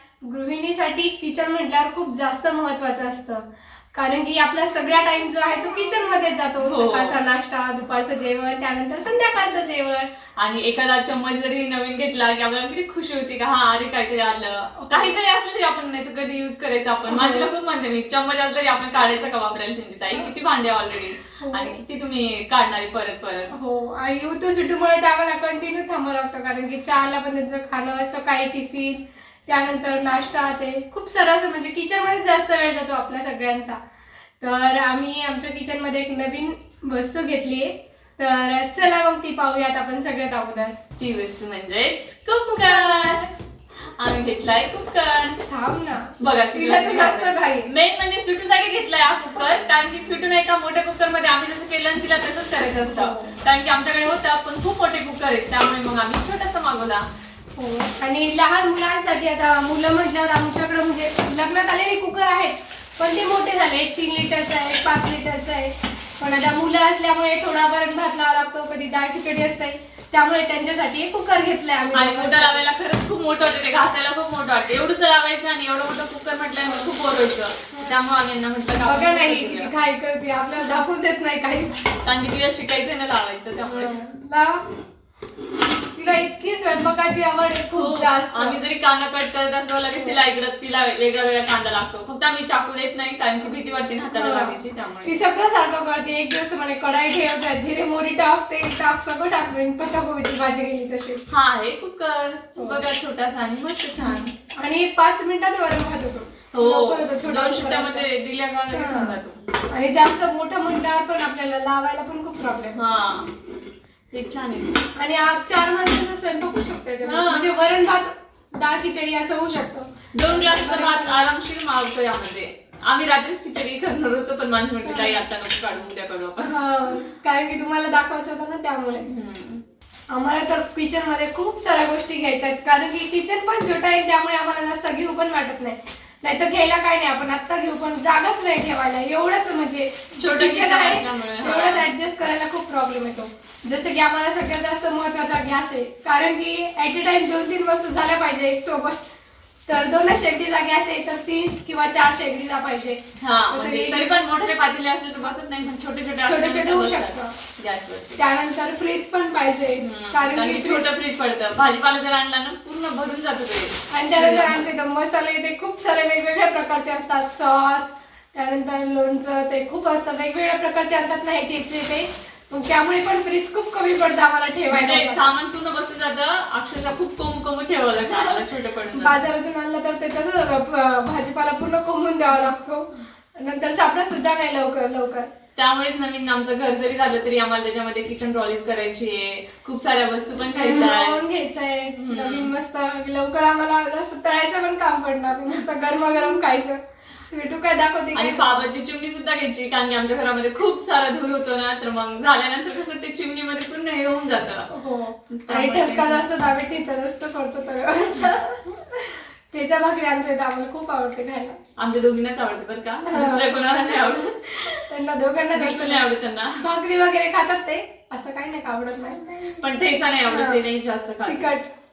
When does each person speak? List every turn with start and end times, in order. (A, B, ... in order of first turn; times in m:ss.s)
0:00.2-0:10.1 A
0:06.6-0:07.2 B
0:10.4-0:23.5 B
0:14.8-0:15.1 A
0:17.1-0:17.5 A
0:21.4-0:21.8 A
0:23.5-0:33.8 A
0:34.4-0:40.8 A
0:40.9-0:43.2 B
0:42.6-0:43.3 A
0:44.0-0:45.4 B
0:45.5-0:47.7 A
0:46.2-0:57.0 B
0:52.9-0:53.4 A
0:57.6-1:12.6 A
1:11.9-1:19.7 B
1:16.6-1:16.9 A
1:18.8-1:21.9 A
1:21.9-1:24.0 B
1:23.6-1:24.6 A
1:25.9-1:28.6 A
1:27.7-1:35.2 B
1:34.1-1:41.2 A
1:41.3-1:44.3 B
1:42.6-1:42.8 A
1:44.5-1:48.1 A
1:46.5-1:49.4 B
1:48.7-1:49.2 A
1:49.7-1:52.8 A
1:52.7-1:53.3 B
1:54.1-1:54.8 B
1:55.0-2:01.3 A
1:57.0-1:57.5 B
2:00.1-2:07.1 B
2:04.8-2:05.2 A
2:06.4-2:09.1 A
2:09.0-2:09.6 B
2:10.1-2:29.0 A
2:20.2-2:21.9 B
2:29.7-2:34.2 A
2:33.2-2:38.2 B
2:36.2-2:37.4 A
2:38.2-2:40.9 A
2:39.8-2:44.7 B
2:43.9-2:55.3 A
2:54.7-2:59.3 B
2:58.1-3:05.3 A
3:05.5-3:11.2 B
3:10.5-3:18.6 A
3:11.9-3:12.5 B
3:18.1-3:24.7 B
3:24.7-3:31.6 A
3:25.3-3:26.3 B
3:31.8-3:34.8 B
3:33.0-3:39.6 A
3:35.5-3:36.6 B
3:39.5-3:41.5 B
3:40.2-3:40.6 A
3:41.2-3:41.7 A